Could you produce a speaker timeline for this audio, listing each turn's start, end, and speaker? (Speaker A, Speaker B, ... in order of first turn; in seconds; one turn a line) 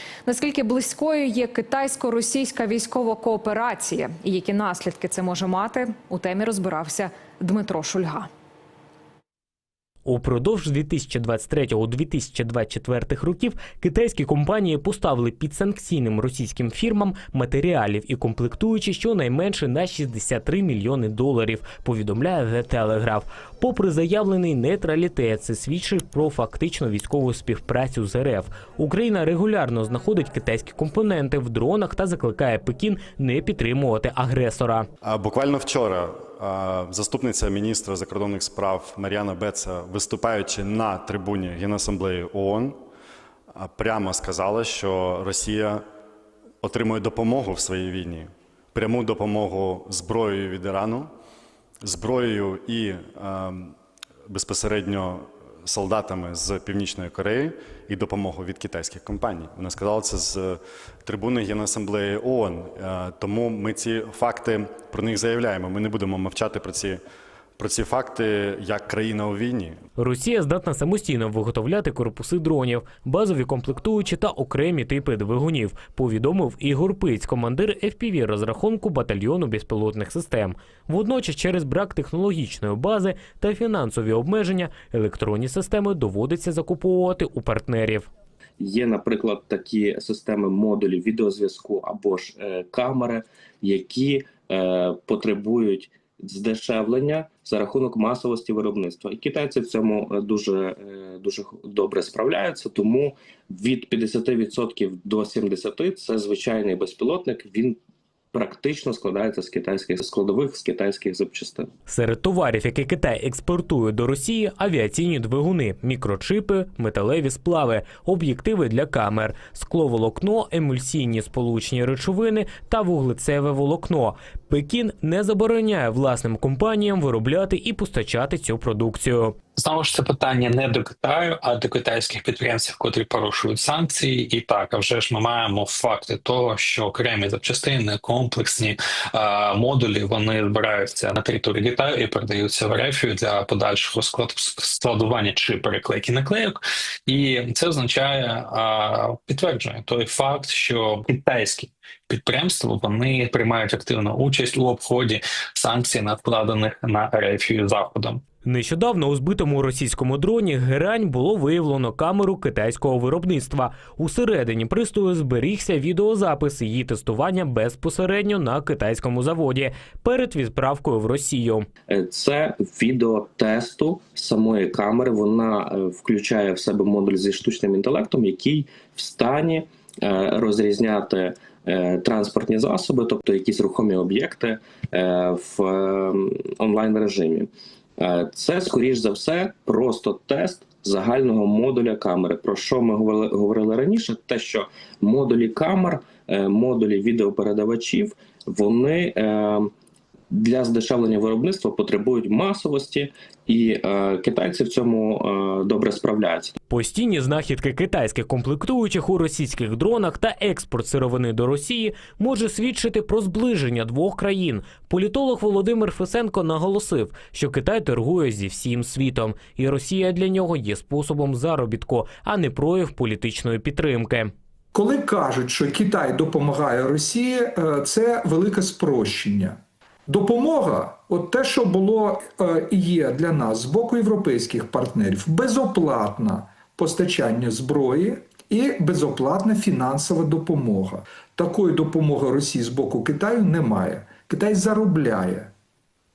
Speaker A: 0.3-8.3
Speaker B: 10.1-34.9
Speaker C: 35.0-42.8
Speaker C: 43.5-45.9
Speaker C: 46.6-51.1
Speaker C: 51.8-53.8
Speaker C: 54.3-67.0
Speaker C: 67.6-69.8
Speaker B: 70.0-88.1
Speaker D: 88.6-107.8
Speaker D: 108.3-111.7
Speaker B: 111.9-129.4
Speaker E: 129.6-158.2
Speaker B: 158.4-171.7
Speaker D: 171.9-199.7
Speaker D: 200.3-206.5
Speaker B: 206.7-224.3
Speaker F: 224.7-245.5